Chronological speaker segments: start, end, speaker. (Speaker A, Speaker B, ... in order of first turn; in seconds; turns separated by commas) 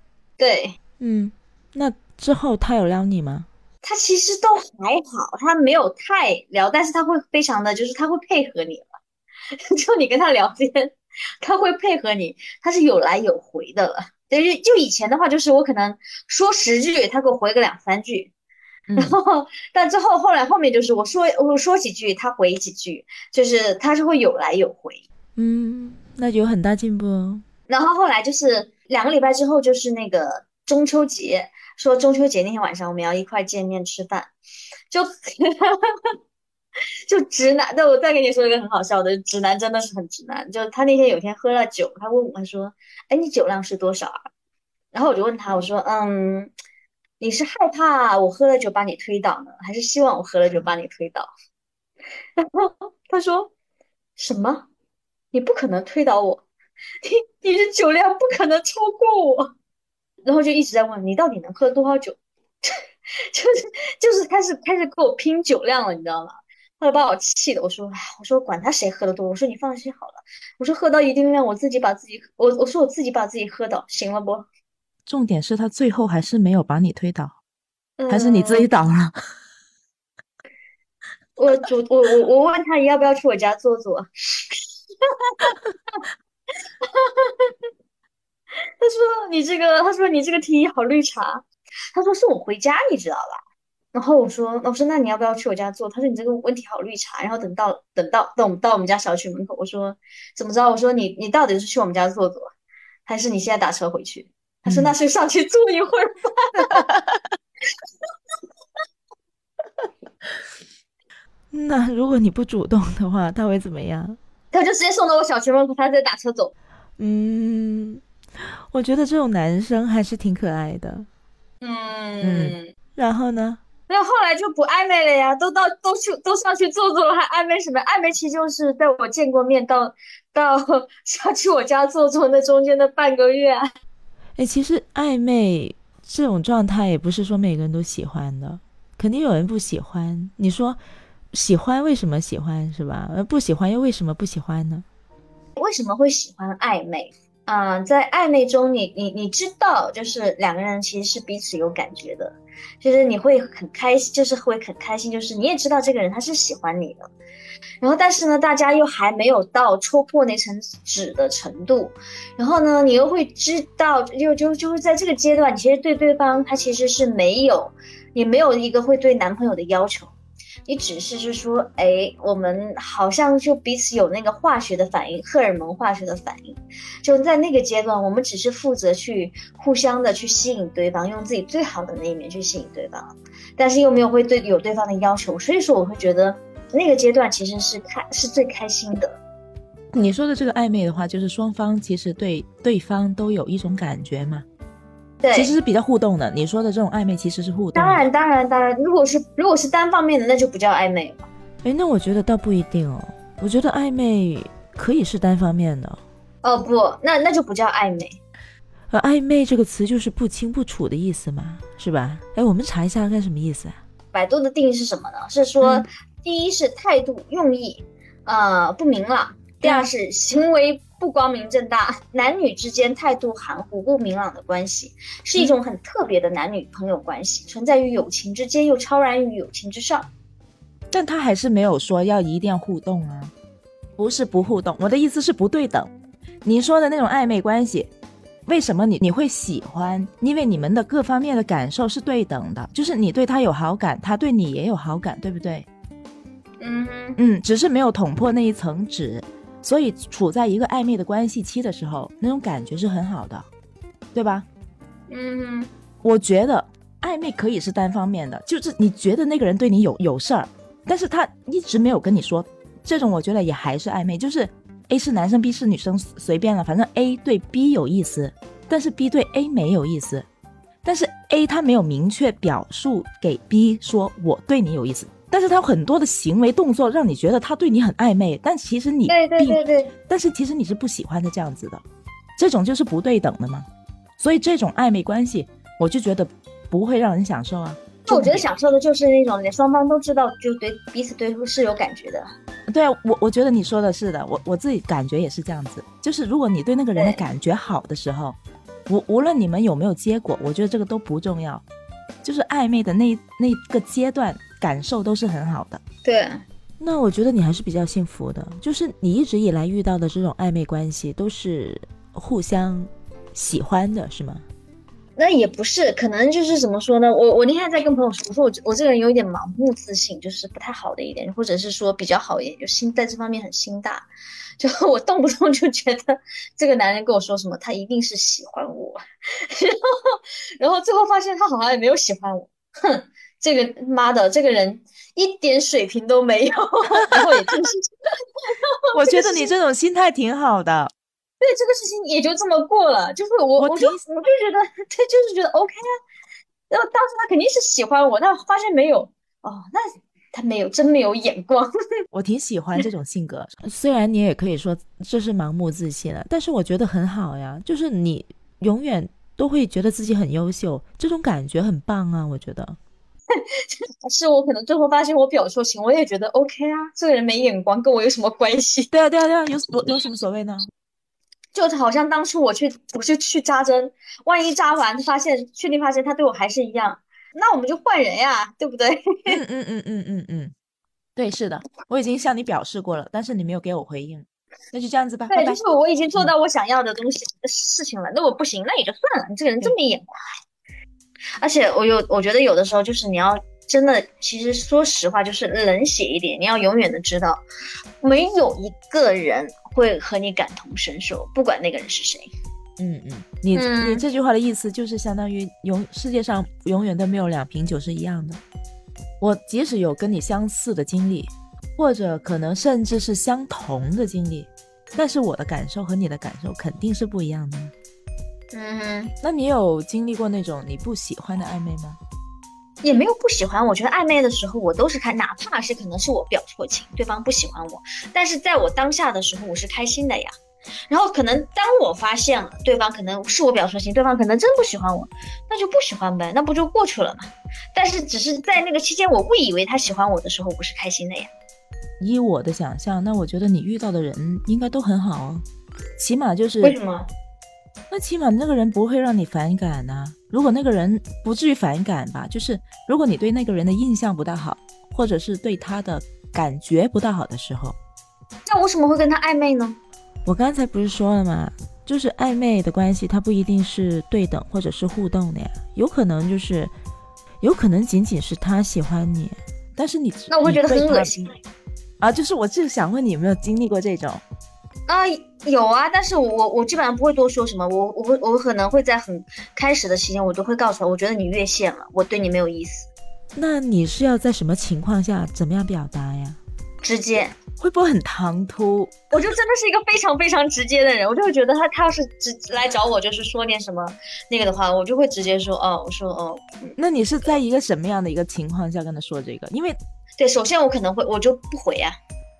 Speaker A: 0.4-0.8, Speaker B: 1.0-3.5, Speaker A: 3.8-8.9, Speaker A: 9.7-18.3, Speaker B: 18.9-19.2, Speaker A: 18.9-25.0, Speaker B: 25.4-27.4, Speaker A: 27.7-34.3, Speaker A: 34.9-35.9, Speaker A: 37.1-44.3, Speaker A: 44.9-46.5, Speaker A: 47.2-51.3, Speaker A: 52.4-53.5, Speaker A: 54.2-54.6, Speaker A: 55.3-56.4, Speaker A: 57.0-59.5, Speaker A: 60.2-74.5, Speaker B: 75.0-77.4, Speaker A: 78.0-78.7, Speaker B: 78.1-79.1, Speaker A: 81.4-84.5, Speaker A: 86.8-87.5, Speaker A: 88.8-93.4, Speaker A: 93.9-102.5, Speaker A: 103.0-106.8, Speaker B: 104.7-105.0, Speaker B: 111.5-114.2, Speaker A: 114.5-116.5, Speaker B: 117.0-118.0, Speaker B: 118.7-121.1, Speaker A: 121.6-122.7, Speaker B: 122.2-123.6, Speaker A: 123.9-133.6, Speaker B: 134.4-140.8, Speaker B: 141.3-144.8, Speaker A: 145.6-157.1, Speaker A: 157.8-170.1, Speaker A: 170.7-189.2, Speaker B: 189.9-194.4, Speaker A: 195.2-195.5, Speaker B: 195.3-198.1, Speaker A: 197.7-201.2, Speaker B: 201.6-206.0, Speaker A: 206.4-208.2, Speaker B: 208.9-213.8, Speaker A: 214.1-230.1, Speaker B: 215.6-215.8, Speaker B: 219.6-219.9, Speaker B: 230.9-233.3, Speaker B: 234.0-235.9, Speaker B: 236.4-237.9, Speaker B: 238.4-245.7, Speaker A: 246.6-247.2, Speaker B: 247.2-253.5, Speaker B: 254.1-254.5, Speaker A: 255.1-255.7, Speaker B: 256.0-270.2, Speaker B: 270.8-281.8, Speaker A: 279.1-279.9, Speaker B: 282.4-283.7, Speaker B: 284.2-288.5, Speaker A: 288.1-292.3, Speaker B: 292.7-298.4, Speaker A: 296.9-297.2, Speaker B: 298.9-301.6, Speaker B: 302.2-305.8, Speaker A: 306.0-306.4, Speaker B: 306.8-314.4, Speaker A: 315.2-324.1, Speaker A: 324.6-329.0, Speaker A: 329.5-337.9, Speaker A: 338.4-339.5, Speaker B: 338.9-340.9, Speaker A: 341.4-345.8, Speaker B: 343.6-344.0, Speaker A: 346.7-351.7, Speaker B: 352.1-362.8, Speaker A: 364.0-368.9, Speaker B: 368.9-370.6, Speaker A: 371.5-379.4, Speaker B: 379.3-380.5, Speaker B: 381.1-385.6, Speaker A: 385.3-390.1, Speaker A: 391.4-397.4, Speaker A: 398.0-402.3, Speaker B: 402.8-408.4, Speaker A: 403.5-404.0, Speaker B: 409.2-417.7, Speaker A: 418.5-419.1, Speaker B: 419.2-422.0, Speaker A: 422.8-430.3, Speaker A: 430.9-441.3, Speaker B: 442.0-445.4, Speaker B: 446.0-446.8, Speaker A: 446.6-447.1, Speaker B: 447.9-457.8, Speaker A: 458.4-459.8, Speaker B: 460.2-466.7, Speaker B: 467.4-471.1, Speaker A: 470.3-471.3, Speaker B: 472.0-474.2, Speaker A: 474.9-482.9, Speaker B: 483.3-486.4, Speaker A: 486.8-487.3, Speaker B: 487.6-489.0, Speaker A: 489.1-496.8, Speaker B: 496.8-499.8, Speaker A: 500.2-502.0